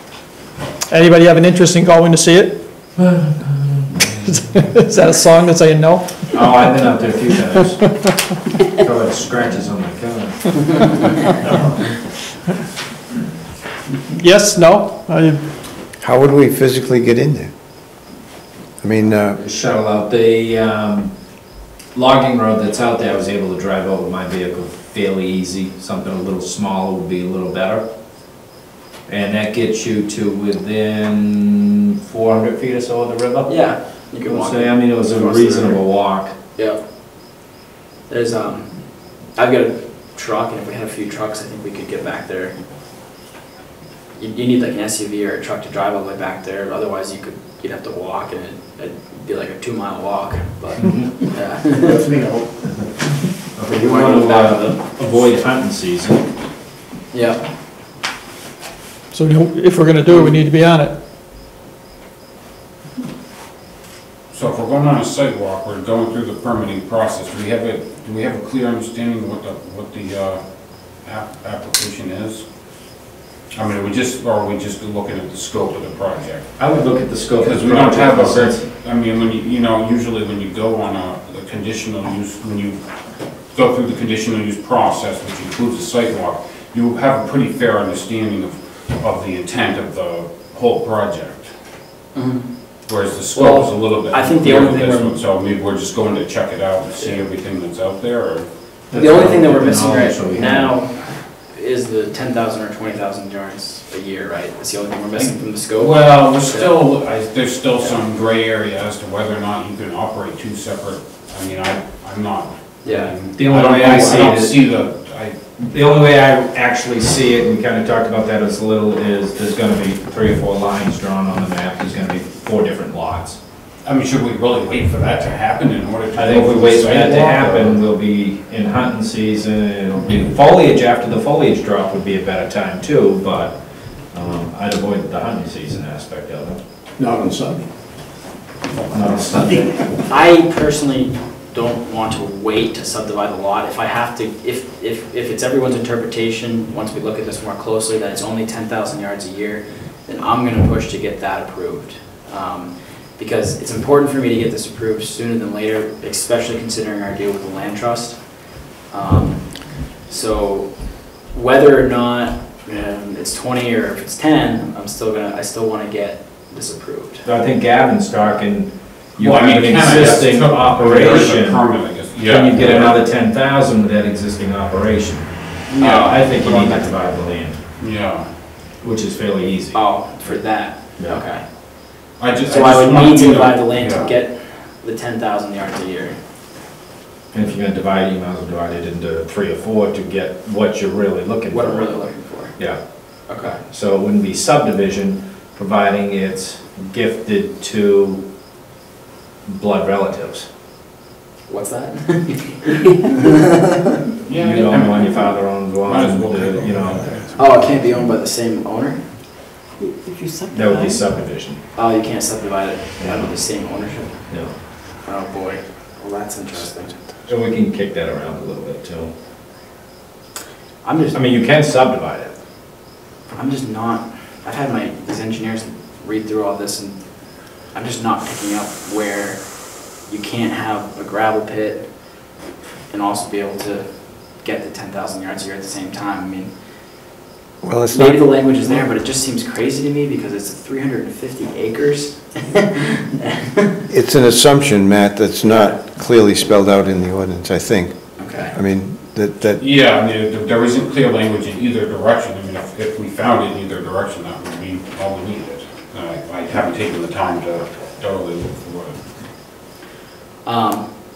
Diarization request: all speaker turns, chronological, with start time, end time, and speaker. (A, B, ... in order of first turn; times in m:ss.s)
0:00.9-0:02.6 A
0:03.0-0:03.8 B
0:04.1-0:06.7 A
0:06.3-0:08.1 B
0:08.7-0:10.7 B
0:11.5-0:11.7 B
0:14.1-0:15.4 A
0:16.0-0:17.5 C
0:18.8-0:19.4 C
0:19.4-0:21.1 B
0:22.0-0:27.9 B
0:29.1-0:33.5 B
0:33.5-0:35.8 D
0:34.3-0:36.3 B
0:38.1-0:38.7 D
0:39.4-0:42.6 D
0:44.2-0:52.0 D
0:50.8-0:51.1 B
0:51.8-0:52.6 E
0:53.6-0:56.2 B
0:53.7-0:55.4 D
0:57.1-0:57.4 D
0:59.1-1:01.0 A
1:00.1-1:00.3 D
1:04.3-1:10.4 F
1:11.0-1:12.4 F
1:13.6-1:16.4 F
1:16.6-1:18.6 B
1:17.4-1:22.8 F
1:23.5-1:31.5 F
1:32.2-1:32.5 D
1:32.9-1:38.5 F
1:33.3-1:35.2 D
1:38.9-1:40.7 B
1:38.9-1:46.8 D
1:45.2-1:55.4 F
1:52.8-1:53.1 D
1:53.4-1:54.6 B
1:55.6-2:03.4 B
2:03.8-2:07.8 F
2:06.2-2:13.6 B
2:14.1-2:16.6 B
2:17.0-2:17.7 E
2:18.9-2:19.7 B
2:18.9-2:19.8 E
2:20.1-2:38.2 D
2:38.9-2:40.7 D
2:41.3-2:47.2 D
2:47.2-2:51.6 B
2:49.2-2:53.0 F
2:52.2-2:55.3 B
2:55.7-2:57.2 D
2:55.8-2:56.2 F
2:55.9-2:57.6 B
2:57.8-2:58.3 F
2:58.8-3:00.4 B
2:59.7-3:01.4 D
3:02.2-3:04.1 F
3:02.4-3:06.2 D
3:07.3-3:11.9 B
3:11.5-3:12.6 D
3:13.3-3:13.6 D
3:13.7-3:18.2 B
3:19.5-3:20.5 B
3:21.5-3:24.0 D
3:24.3-3:27.2 F
3:24.4-3:27.1 B
3:27.4-3:29.0 D
3:30.5-3:31.6 B
3:31.8-3:34.2 D
3:33.0-3:33.3 B
3:35.0-3:37.0 D
3:37.3-3:39.1 B
3:40.8-3:41.2 D
3:41.1-3:42.3 B
3:43.3-3:47.0 D
3:47.7-3:49.4 D
3:50.1-3:51.9 D
3:52.9-3:53.9 D
3:54.4-3:56.5 D
3:57.6-3:58.8 C
3:57.9-4:03.8 D
4:03.9-4:08.0 C
4:08.2-4:08.5 D
4:08.5-4:09.6 C
4:09.6-4:19.0 F
4:20.4-4:20.9 D